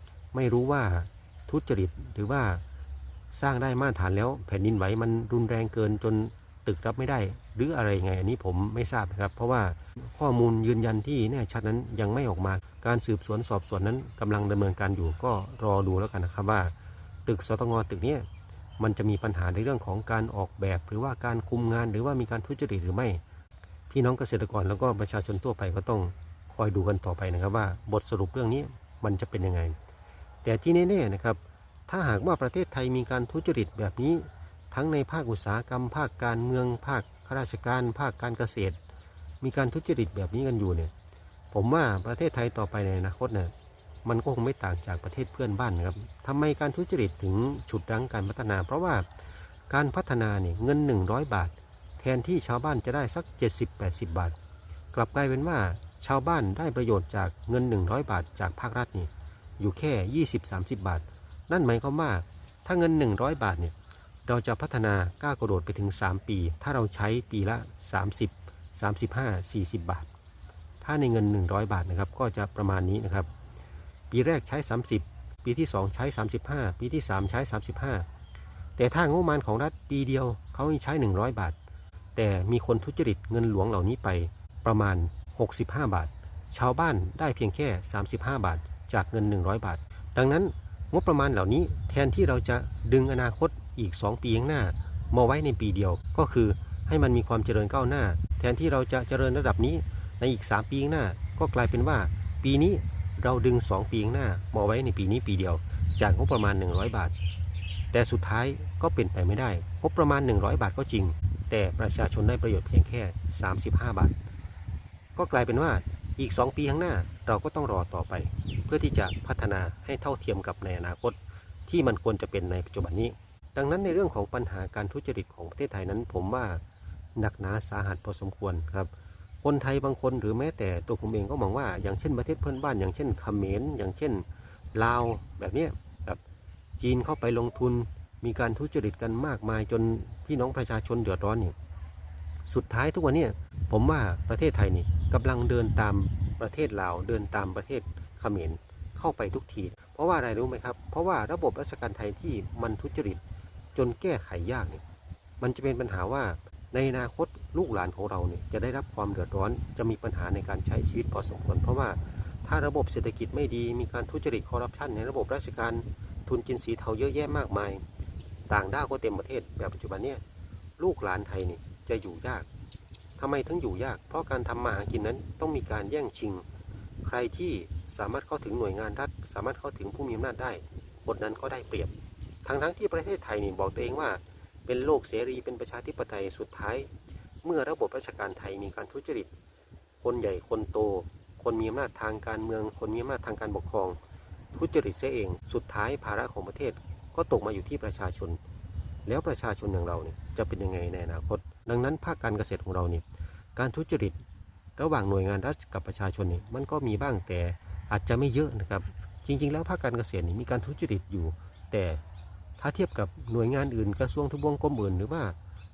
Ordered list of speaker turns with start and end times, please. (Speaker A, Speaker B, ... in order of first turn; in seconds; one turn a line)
Speaker A: 0.3-2.6
Speaker A: 3.3-16.7
Speaker A: 17.2-18.2
Speaker A: 18.8-23.2
Speaker A: 23.9-29.7
Speaker A: 30.4-38.8
Speaker A: 39.4-40.9
Speaker A: 41.5-43.5
Speaker A: 44.0-49.0
Speaker A: 49.7-54.3
Speaker A: 54.9-63.7
Speaker A: 64.2-70.1
Speaker A: 70.8-73.3
Speaker A: 74.1-78.0
Speaker A: 78.8-81.5
Speaker A: 82.2-107.1
Speaker A: 107.9-114.2
Speaker A: 115.2-126.6
Speaker A: 127.2-128.9
Speaker A: 129.4-136.2
Speaker A: 136.8-141.5
Speaker A: 142.4-153.2
Speaker A: 153.7-154.8
Speaker A: 155.4-167.8
Speaker A: 168.5-170.2
Speaker A: 170.8-172.4
Speaker A: 173.2-176.4
Speaker A: 177.0-181.9
Speaker A: 182.4-186.9
Speaker A: 187.4-189.3
Speaker A: 190.0-194.0
Speaker A: 194.5-198.4
Speaker A: 199.1-203.0
Speaker A: 203.6-204.2
Speaker A: 204.8-212.0
Speaker A: 212.6-215.3